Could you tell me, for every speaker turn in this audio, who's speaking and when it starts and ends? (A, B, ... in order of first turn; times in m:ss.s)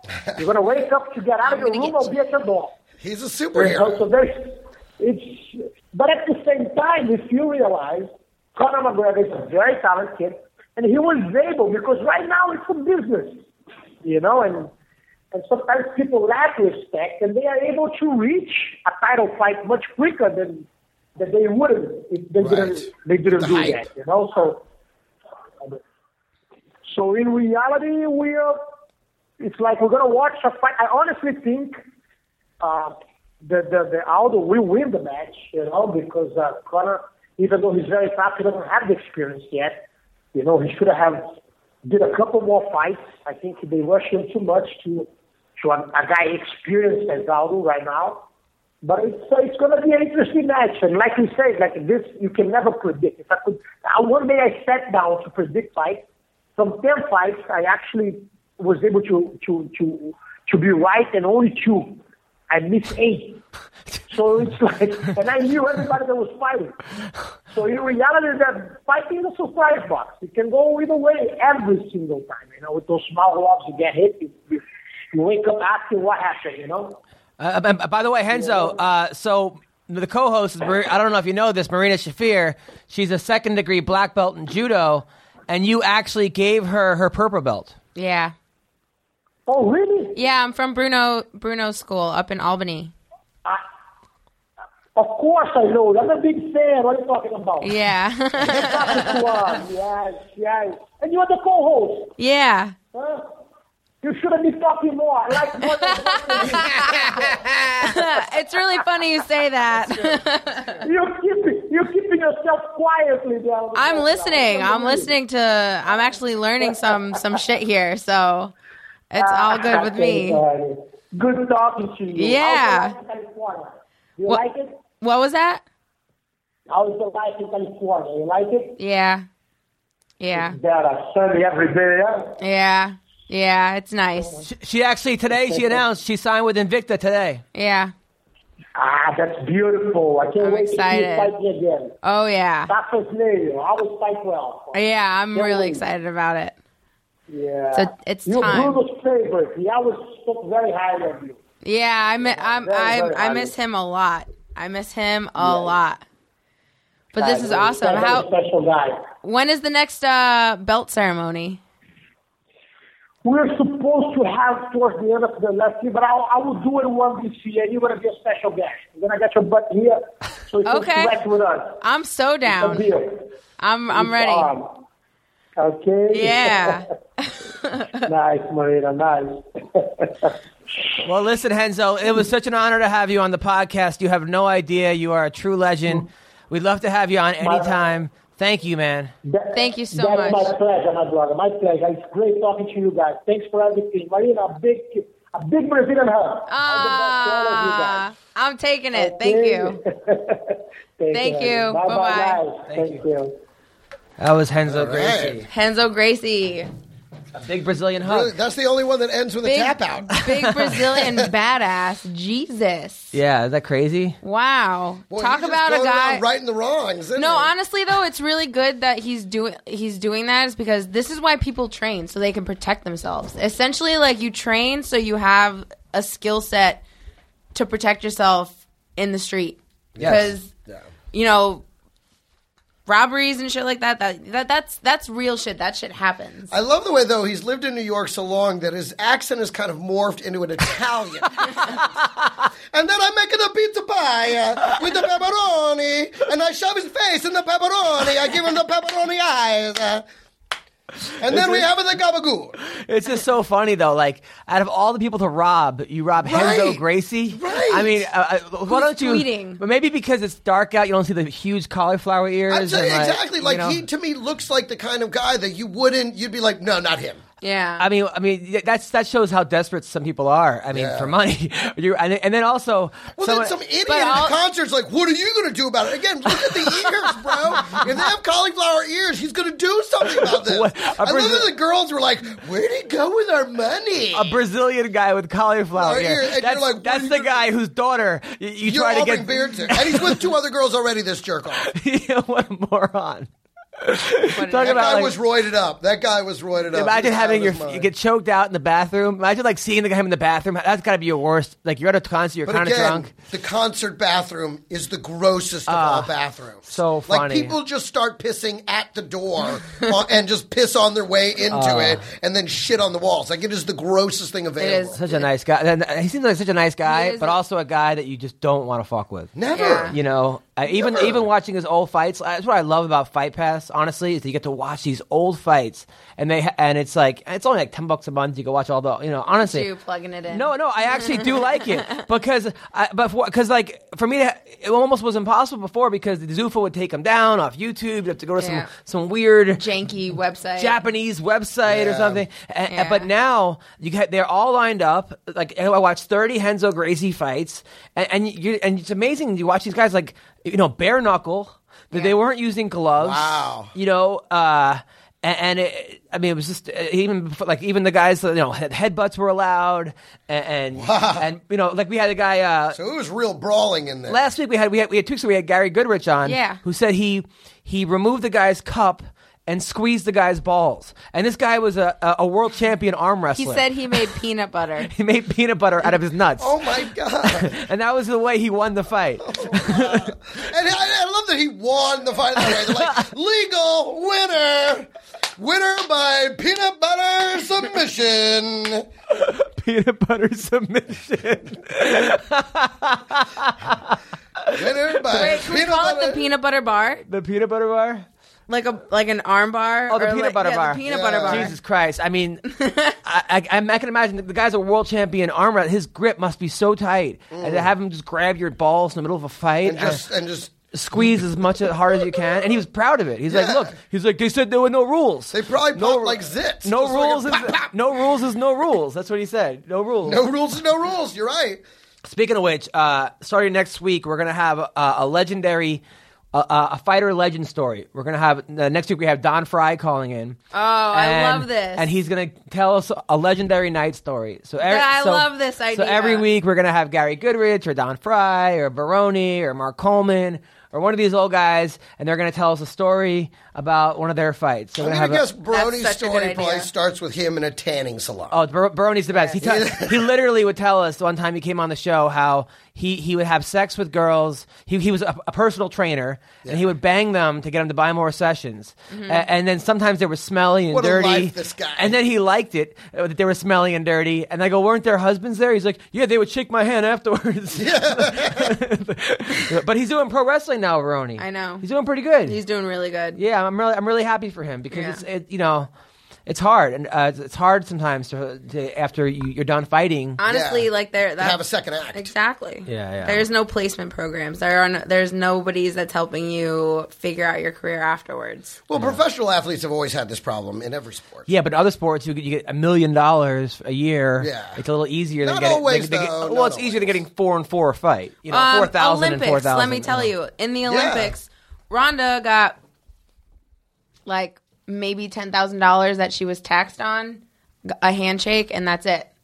0:00.3-0:02.8 A
0:01.6-0:01.9 B
0:03.0-0:04.0 C
0:03.5-0:13.4 A
0:14.0-0:14.7 A
0:15.3-0:20.6 A
0:21.2-0:24.6 A
0:22.4-0:22.8 C
0:23.3-0:23.8 C
0:26.8-0:28.6 A
0:29.4-0:31.7 A
0:32.6-0:39.8 A
0:40.3-0:41.3 A
0:41.8-0:48.2 A
0:48.8-0:56.0 A
0:56.6-1:03.4 A
1:04.1-1:06.8 A
1:07.5-1:17.0 A
1:17.4-1:27.7 D
1:18.3-1:18.8 A
1:28.0-1:28.3 B
1:29.5-1:30.2 A
1:30.1-1:32.9 B
1:35.0-1:37.7 A
1:37.6-1:39.1 B
1:38.4-1:42.1 A
1:42.2-1:42.7 B
1:42.9-1:43.3 A
1:44.0-1:48.0 A
1:46.3-1:47.1 B
1:47.8-1:50.8 B
1:50.8-1:55.1 A
1:53.7-1:58.5 B
1:56.6-1:57.2 A
1:59.1-2:00.4 B
1:59.2-2:04.8 A
2:02.1-2:03.0 B
2:05.0-2:05.6 B
2:06.7-2:08.8 A
2:08.8-2:09.2 B
2:10.2-2:10.6 B
2:10.3-2:12.4 A
2:12.4-2:14.4 B
2:14.4-2:17.4 D
2:15.3-2:15.8 A
2:17.5-2:17.9 B
2:18.8-2:22.0 A
2:20.4-2:21.3 B
2:22.0-2:22.7 B
2:22.7-2:24.8 A
2:24.7-2:26.5 B
2:25.3-2:25.8 A
2:27.3-2:31.4 A
2:27.7-2:28.8 B
2:31.6-2:36.0 B
2:32.2-2:33.5 A
2:35.4-2:35.7 A
2:37.1-2:38.3 B
2:37.2-2:39.0 A
2:39.2-2:41.6 B
2:43.2-2:51.8 A
2:50.6-2:51.2 B
2:51.8-2:52.9 B
2:52.4-2:53.3 A
2:53.6-2:54.5 B
2:53.9-2:54.8 A
2:55.6-2:56.8 A
2:56.1-2:58.0 B
2:58.0-3:00.3 A
3:01.0-3:09.1 D
3:07.4-3:07.8 A
3:09.2-3:18.0 A
3:09.5-3:10.5 B
3:16.5-3:19.8 B
3:18.9-3:23.3 A
3:21.1-3:22.4 B
3:22.7-3:23.0 D
3:24.2-3:25.5 D
3:24.7-3:25.4 C
3:25.5-3:26.7 B
3:27.3-3:28.3 D
3:28.0-3:30.1 C
3:29.4-3:33.2 B
3:33.1-3:34.2 D
3:34.2-3:36.2 B
3:35.1-3:37.5 C
3:37.2-3:46.8 B
3:47.5-3:50.5 B
3:50.0-3:50.8 C
3:51.1-3:51.6 B
3:52.8-3:56.5 B
3:56.5-4:01.8 C
4:02.7-4:10.0 C
4:11.2-4:12.6 C
4:11.2-4:11.6 D
4:12.7-4:23.8 D
4:16.2-4:18.0 C
4:18.7-4:19.6 B
4:22.5-4:27.2 C
4:27.4-4:27.8 B
4:27.8-4:33.5 D
4:30.7-4:31.1 C
4:33.2-4:44.3 C
4:33.8-4:34.3 B
4:36.6-4:36.8 D
4:40.2-4:41.5 D
4:44.1-4:50.3 D
4:45.8-4:47.4 C
4:48.6-4:51.7 C
4:51.6-4:55.2 D
4:54.3-4:55.1 B
4:54.5-4:57.9 C
4:56.7-5:03.1 D
5:02.4-5:15.0 C
5:05.7-5:06.1 D
5:06.6-5:07.5 D
5:11.5-5:12.0 D
5:14.6-5:15.2 B
5:15.0-5:29.7 D
5:16.8-5:17.4 B
5:19.4-5:20.0 C
5:19.5-5:19.9 B
5:20.8-5:21.2 C
5:29.4-5:31.9 B
5:30.3-5:39.6 D
5:38.4-5:38.7 B
5:39.6-5:40.8 B
5:40.6-6:02.8 D
5:41.6-5:42.2 C
5:42.7-5:43.1 B
5:53.0-5:53.7 C
6:00.7-6:01.3 C
6:02.7-6:04.2 C
6:04.1-6:14.0 D
6:06.2-6:06.6 B
6:13.3-6:14.9 B
6:14.9-6:16.6 D
6:16.4-6:17.6 C
6:17.2-6:20.1 D
6:19.2-6:28.9 C
6:22.5-6:22.8 D
6:29.1-6:35.4 D
6:34.5-6:36.2 C
6:35.1-6:37.0 B
6:37.1-6:38.0 D
6:38.5-6:41.5 B
6:39.9-6:50.0 D
6:40.8-6:41.5 C
6:42.5-6:42.9 B
6:47.3-6:47.7 C
6:49.6-6:51.2 C
6:50.7-7:00.2 D
6:53.3-6:53.7 C
6:55.3-6:57.7 C
7:00.0-7:01.6 C
7:02.0-7:05.8 D
7:06.3-7:10.4 D
7:10.5-7:11.9 B
7:10.9-7:25.2 D
7:14.6-7:16.2 B
7:24.8-7:28.4 C
7:25.5-7:26.7 B
7:28.3-7:52.4 D
7:29.1-7:29.4 B
7:29.4-7:30.1 C
7:38.9-7:39.2 B
7:40.7-7:42.0 C
7:47.5-7:48.5 C
7:51.2-7:51.6 B
7:52.2-7:53.2 B
7:53.2-7:55.7 D
7:54.7-7:55.0 B
7:56.2-8:00.2 D
8:00.2-8:01.4 B
8:00.3-8:00.7 C
8:01.2-8:02.1 C
8:01.9-8:08.6 B
8:02.6-8:03.2 D
8:08.7-8:11.3 C
8:08.7-8:09.0 D
8:11.3-8:20.1 D
8:14.2-8:14.6 C
8:15.2-8:17.0 C
8:18.3-8:22.6 B
8:20.6-8:21.1 C
8:24.0-8:29.1 B